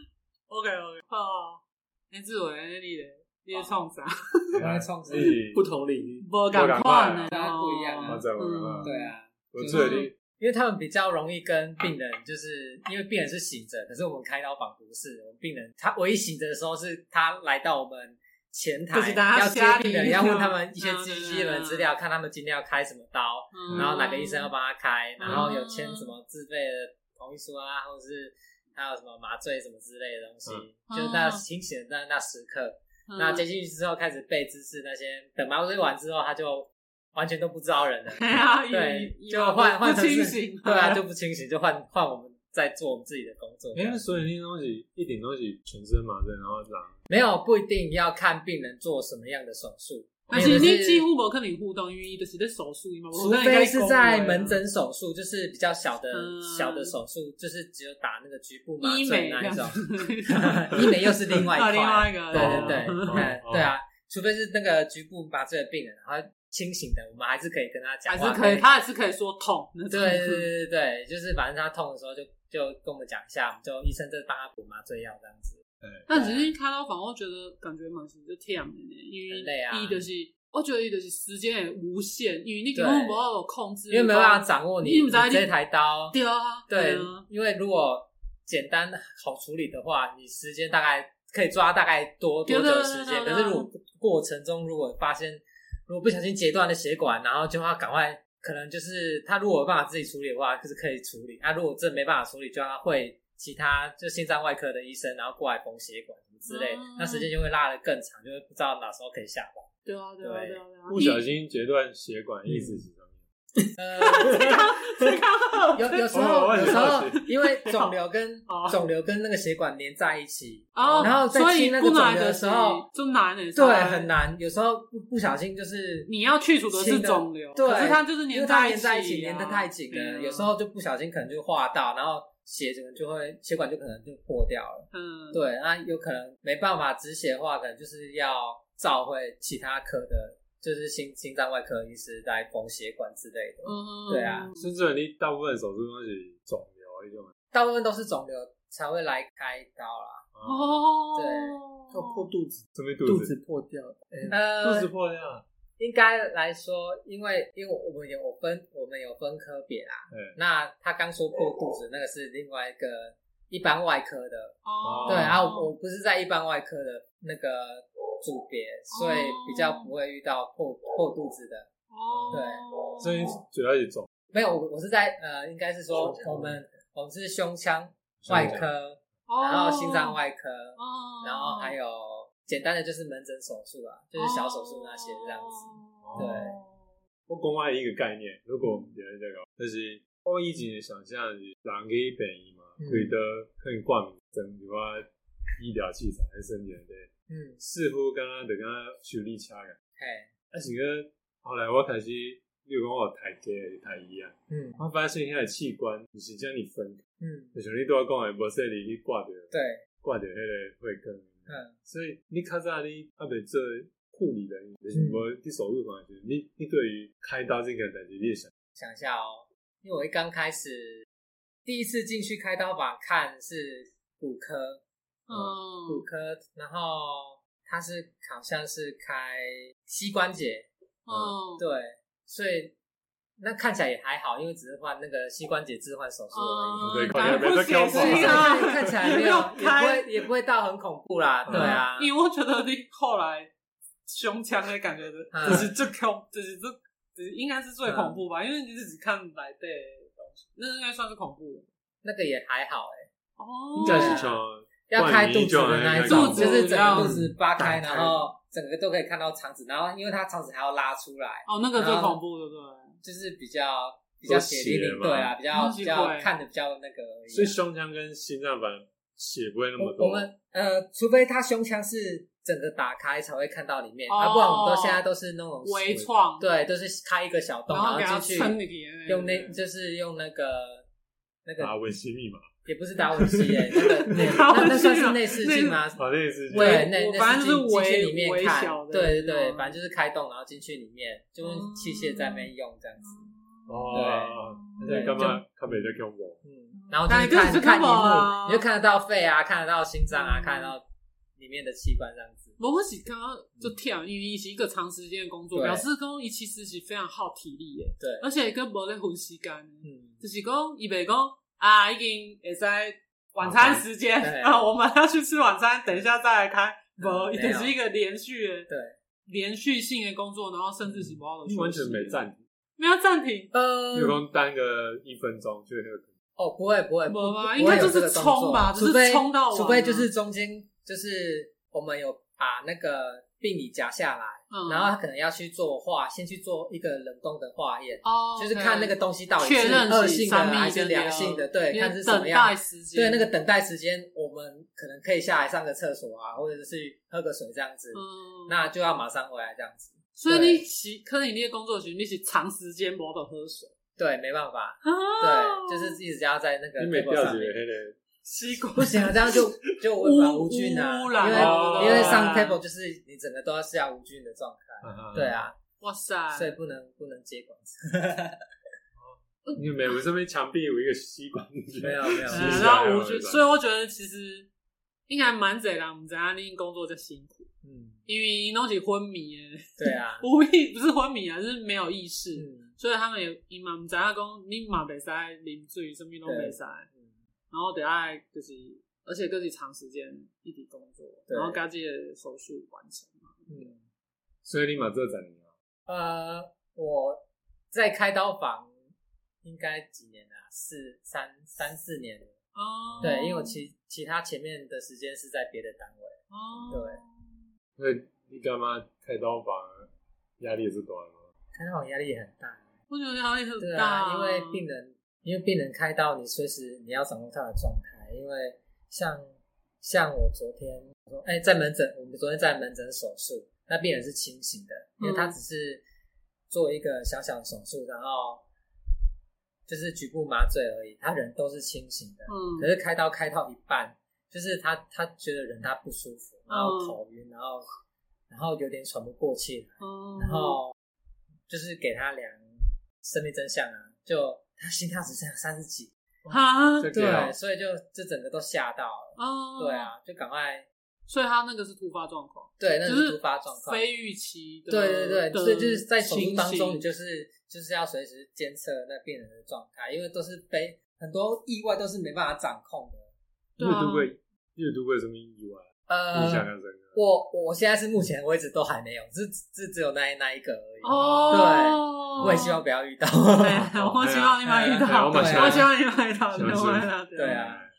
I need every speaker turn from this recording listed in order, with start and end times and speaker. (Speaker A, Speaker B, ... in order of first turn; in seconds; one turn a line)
Speaker A: 0.5-4.6
Speaker B: 4.6-5.6
Speaker C: 4.6-5.4
Speaker D: 5.1-6.2
Speaker A: 6.2-9.1
Speaker B: 6.5-7.3
Speaker C: 7.3-8.2
Speaker B: 8.0-8.9
Speaker C: 8.8-44.0
Speaker B: 9.5-10.1
Speaker A: 9.7-10.1
Speaker A: 18.9-21.9
Speaker A: 23.5-24.5
Speaker A: 25.2-26.1
Speaker A: 30.9-31.4
Speaker A: 33.1-33.4
Speaker A: 38.1-41.0
Speaker B: 43.7-47.0
Speaker C: 47.1-51.1
Speaker A: 50.3-54.6
Speaker B: 50.3-50.7
Speaker C: 53.1-68.7
Speaker A: 56.1-57.0
Speaker A: 58.8-63.3
Speaker B: 62.3-63.7
Speaker A: 68.1-70.5
Speaker C: 69.9-75.6
Speaker B: 75.8-76.1
Speaker A: 76.1-85.5
Speaker C: 76.1-76.5
Speaker C: 79.3-80.0
Speaker C: 82.7-83.2
Speaker C: 83.9-86.2
Speaker A: 86.1-87.2
Speaker C: 86.7-109.7
Speaker A: 92.5-93.7
Speaker A: 106.5-107.3
Speaker A: 109.8-111.2
Speaker C: 110.2-110.6
Speaker B: 110.9-113.2
Speaker C: 112.5-112.8
Speaker C: 113.7-114.7
Speaker A: 114.0-118.8
Speaker C: 115.8-122.8
Speaker B: 116.1-117.2
Speaker A: 120.7-124.1
Speaker C: 123.5-126.1
Speaker A: 126.1-130.5
Speaker C: 126.7-144.5
Speaker A: 134.9-135.4
Speaker A: 143.6-144.7
Speaker B: 144.6-147.3
Speaker C: 147.5-150.2
Speaker B: 150.3-150.8
Speaker A: 150.4-152.3
Speaker C: 151.1-151.6
Speaker D: 151.9-154.3
Speaker B: 152.8-153.3
Speaker C: 154.3-154.9
Speaker B: 154.6-155.4
Speaker C: 155.8-171.7
Speaker B: 160.1-160.4
Speaker A: 164.6-165.7
Speaker B: 164.8-165.4
Speaker A: 168.9-169.9
Speaker A: 171.9-173.4
Speaker B: 172.1-172.4
Speaker C: 172.3-172.7
Speaker B: 173.0-174.1
Speaker C: 174.3-186.6
Speaker B: 176.1-176.5
Speaker B: 178.2-178.7
Speaker A: 179.3-180.2
Speaker A: 180.8-181.8
Speaker A: 184.2-186.9
Speaker B: 186.0-186.4
Speaker B: 187.3-199.8
Speaker C: 188.6-188.9
Speaker C: 192.8-193.1
Speaker C: 197.3-197.6
Speaker C: 200.0-200.3
Speaker B: 200.5-207.0
Speaker C: 204.5-204.8
Speaker C: 207.2-207.5
Speaker B: 207.5-218.5
Speaker C: 209.5-209.8
Speaker C: 211.5-211.7
Speaker C: 214.9-215.2
Speaker C: 218.8-221.1
Speaker C: 221.7-224.8
Speaker A: 225.3-226.1
Speaker C: 225.9-230.7
Speaker A: 231.1-231.6
Speaker B: 231.1-231.3
Speaker C: 231.6-232.7
Speaker C: 233.4-242.1
Speaker A: 236.3-240.2
Speaker B: 236.8-238.9
Speaker A: 241.5-243.5
Speaker A: 244.1-251.7
Speaker C: 245.3-245.7
Speaker C: 247.9-248.2
Speaker C: 252.0-253.1
Speaker A: 253.4-254.3
Speaker C: 253.8-254.4
Speaker B: 253.8-256.7
Speaker C: 254.9-262.2
Speaker A: 256.1-257.2
Speaker D: 256.9-258.2
Speaker A: 261.4-262.9
Speaker C: 263.0-267.6
Speaker B: 264.2-265.3
Speaker A: 265.5-266.3
Speaker B: 267.3-270.3
Speaker C: 269.8-280.9
Speaker A: 274.1-275.0
Speaker A: 275.6-276.4
Speaker A: 277.7-279.6
Speaker C: 281.4-281.7
Speaker B: 281.6-282.4
Speaker C: 282.6-293.3
Speaker B: 283.1-284.4
Speaker A: 284.1-285.9
Speaker B: 286.0-286.9
Speaker A: 286.5-289.8
Speaker A: 291.4-295.4
Speaker B: 293.7-296.4
Speaker C: 293.9-300.8
Speaker A: 296.7-298.7
Speaker A: 300.1-300.7
Speaker C: 301.4-302.6
Speaker A: 302.6-318.7
Speaker C: 305.5-305.9
Speaker C: 308.0-308.2
Speaker C: 309.8-310.2
Speaker B: 313.4-313.9
Speaker C: 314.2-314.6
Speaker C: 317.0-317.7
Speaker C: 318.7-318.9
Speaker A: 319.3-322.2
Speaker B: 321.4-322.4
Speaker A: 322.8-323.5
Speaker C: 323.5-324.2
Speaker B: 323.9-326.1
Speaker C: 326.4-350.7
Speaker A: 327.1-330.1
Speaker A: 334.5-334.9
Speaker A: 338.0-343.3
Speaker A: 347.9-348.7
Speaker A: 350.2-353.7
Speaker C: 354.0-357.6
Speaker A: 354.8-356.0
Speaker B: 356.8-358.0
Speaker A: 358.2-359.5
Speaker C: 358.8-365.6
Speaker A: 360.0-362.6
Speaker B: 361.2-362.3
Speaker B: 364.8-365.4
Speaker A: 365.8-366.6
Speaker C: 366.3-368.4
Speaker B: 369.0-373.4
Speaker C: 371.8-372.8
Speaker A: 372.3-374.5
Speaker A: 375.1-377.5
Speaker C: 377.6-378.0
Speaker A: 378.1-386.9
Speaker C: 379.8-380.2
Speaker C: 382.4-382.7
Speaker C: 386.2-387.1
Speaker A: 387.5-393.7
Speaker C: 391.3-391.6
Speaker C: 393.5-393.8
Speaker B: 394.4-395.5
Speaker C: 395.9-398.7
Speaker C: 399.4-402.4
Speaker A: 402.6-403.6
Speaker C: 403.0-407.0
Speaker A: 406.3-407.4
Speaker B: 407.8-409.9
Speaker B: 410.4-411.3
Speaker C: 411.6-412.6
Speaker A: 412.9-414.6
Speaker C: 413.6-425.8
Speaker A: 425.0-425.4
Speaker C: 426.5-428.4
Speaker C: 429.7-437.7
Speaker A: 432.3-432.7
Speaker A: 436.5-436.9
Speaker C: 438.3-440.7
Speaker A: 439.8-440.6
Speaker C: 441.5-445.9
Speaker A: 446.3-446.9
Speaker B: 446.8-447.4
Speaker C: 446.9-450.7
Speaker A: 449.1-449.9
Speaker A: 451.1-456.8
Speaker C: 452.6-453.8
Speaker C: 454.7-463.1
Speaker A: 463.6-464.1
Speaker B: 463.6-467.0
Speaker C: 465.9-473.7
Speaker A: 470.8-472.6
Speaker B: 470.9-471.5
Speaker A: 473.4-477.4
Speaker B: 473.7-475.7
Speaker C: 474.5-475.6
Speaker B: 476.3-477.7
Speaker C: 477.1-477.6